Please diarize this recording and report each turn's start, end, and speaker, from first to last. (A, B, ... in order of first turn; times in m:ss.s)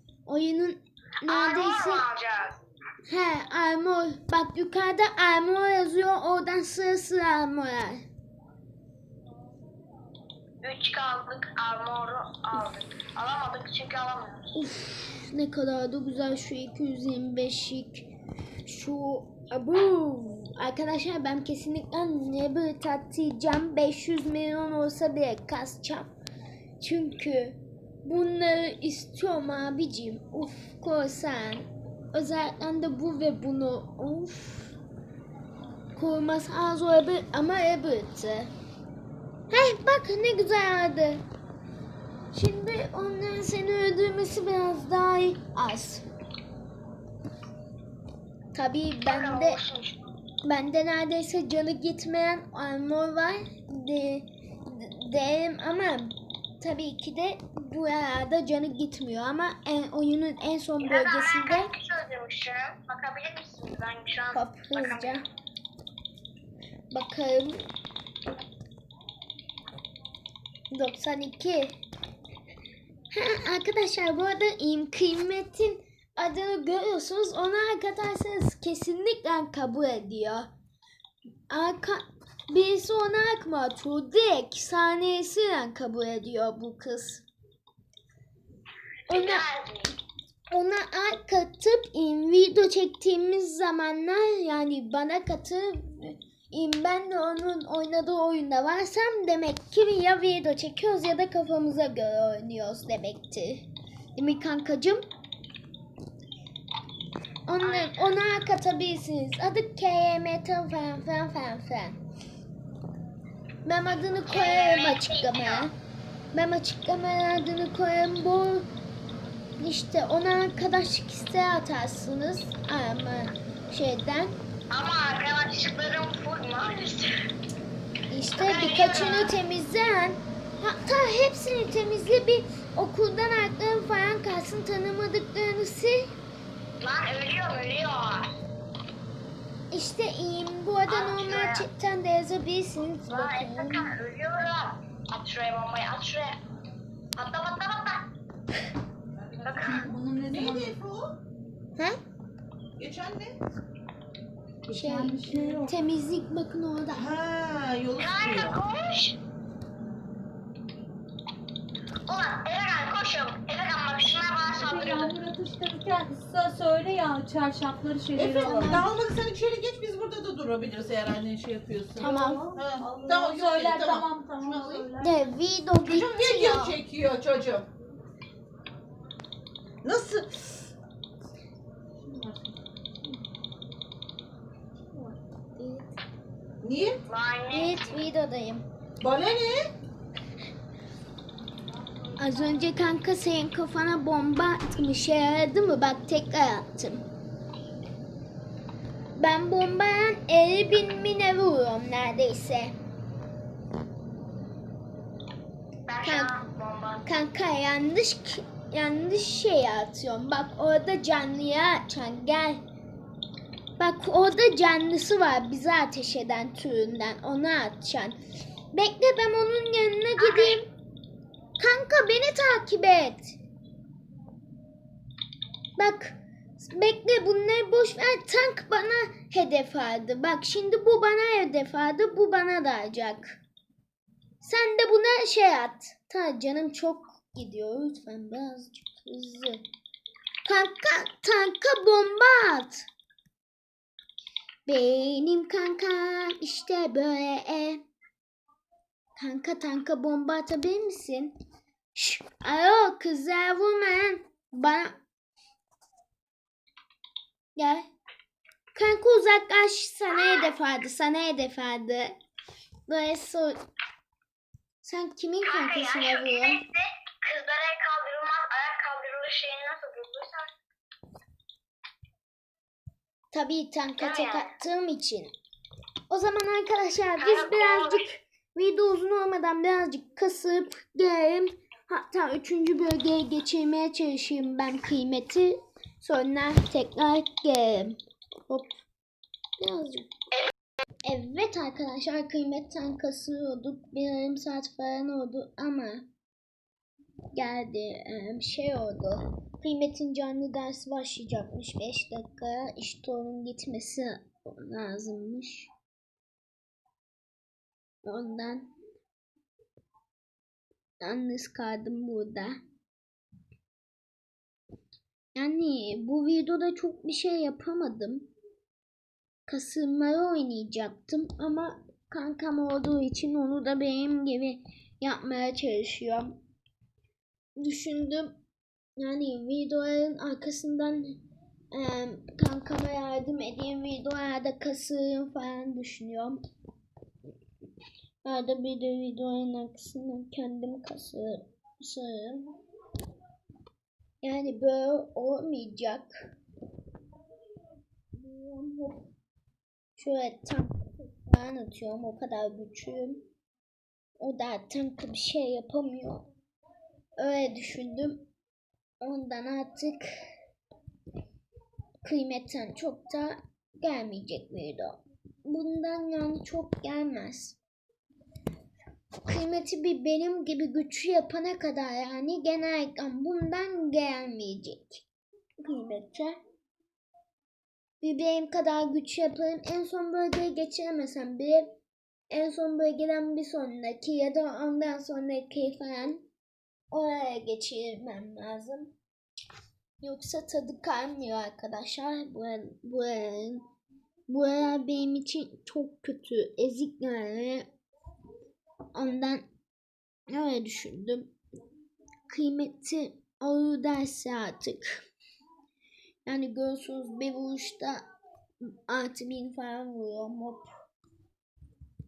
0:00.3-0:02.1 A
0:01.3-0:02.6 B
0:03.1-0:08.1 A
0:10.6-0:14.4 B
0:14.6-0:18.1 A
0:18.6-0:26.1 A
0:26.8-0:34.8 A
0:36.0-0:38.5 A
0:39.5-0:41.2 A
0:42.3-0:46.0 A
0:48.5-0:49.6 A
0:49.1-0:50.0 B
0:50.4-1:01.7 A
1:00.8-1:05.2 B
1:04.3-1:05.2 A
1:06.9-1:07.7 A
1:10.7-1:11.8 A
1:13.1-1:20.5 A
1:21.5-1:27.2 A
1:29.1-1:29.4 A
1:29.1-1:29.9 B
1:30.5-1:45.0 A
1:47.5-1:52.0 A
1:47.6-1:47.9 B
1:53.6-1:55.8 A
1:54.3-1:55.7 B
1:56.3-1:58.7 A
1:59.6-2:04.4 A
2:04.7-2:07.1 B
2:08.1-2:16.2 A
2:08.4-2:09.3 B
2:16.8-2:18.3 B
2:19.7-2:23.9 A
2:20.9-2:21.6 B
2:23.1-2:26.4 B
2:27.2-2:28.1 B
2:29.4-2:29.9 B
2:29.6-2:30.7 C
2:30.3-2:31.2 D
2:32.8-2:33.4 D
2:34.7-2:35.7 C
2:34.7-2:37.1 A
2:36.9-2:38.6 D
2:38.0-2:39.2 B
2:42.1-2:45.2 B
2:44.5-2:48.8 C
2:48.2-2:54.9 D
2:48.3-2:48.9 A
2:52.0-2:52.4 A
2:52.0-2:55.2 C
2:55.0-2:56.8 A
2:55.8-2:57.7 D
2:59.8-3:00.7 D
3:02.0-3:02.5 C
3:05.6-3:05.9 A
3:06.6-3:07.0 D
3:07.1-3:08.0 B
3:07.5-3:08.6 A
3:09.0-3:09.7 D
3:12.2-3:17.0 A
3:19.2-3:22.8 A
3:25.9-3:27.0 B
3:26.0-3:26.3 A
3:27.1-3:32.6 A
3:33.8-3:38.2 A
3:38.7-3:40.7 A
3:40.2-3:40.6 B
3:41.6-3:43.4 A
3:45.8-3:53.4 A
3:54.4-3:59.6 A
4:00.4-4:02.9 A
4:04.7-4:07.8 A
4:09.2-4:11.3 A
4:11.9-4:15.0 A
4:17.6-4:17.9 A
4:18.7-4:22.2 A
4:20.1-4:20.5 B
4:22.9-4:23.6 A
4:24.8-4:26.6 A
4:25.4-4:30.5 B
4:33.3-4:35.3 A
4:34.0-4:34.5 B
4:36.1-4:48.0 A
4:37.2-4:38.0 B
4:48.5-4:48.8 A
4:49.6-4:50.1 A
4:51.0-4:56.1 A
4:57.3-5:05.7 A
5:08.0-5:08.7 A
5:11.0-5:12.6 A
5:15.3-5:18.3 A
5:19.5-5:26.4 A
5:27.6-5:28.4 A
5:29.0-5:31.2 A
5:31.7-5:36.4 A
5:38.2-5:42.5 A
5:44.2-5:46.1 A
5:48.1-5:49.0 A
5:50.0-5:53.2 A
5:54.2-5:56.3 A
5:57.2-5:58.2 A
5:59.0-6:00.1 A
6:02.0-6:07.6 A
6:09.2-6:15.0 A
6:15.6-6:16.4 A
6:18.0-6:21.7 A
6:22.3-6:26.2 A
6:26.9-6:28.9 A
6:30.0-6:33.6 A
6:34.3-6:37.7 A
6:38.9-6:39.5 A
6:40.3-6:41.3 A
6:42.3-6:45.0 A
6:46.3-6:48.1 A
6:48.9-6:50.7 A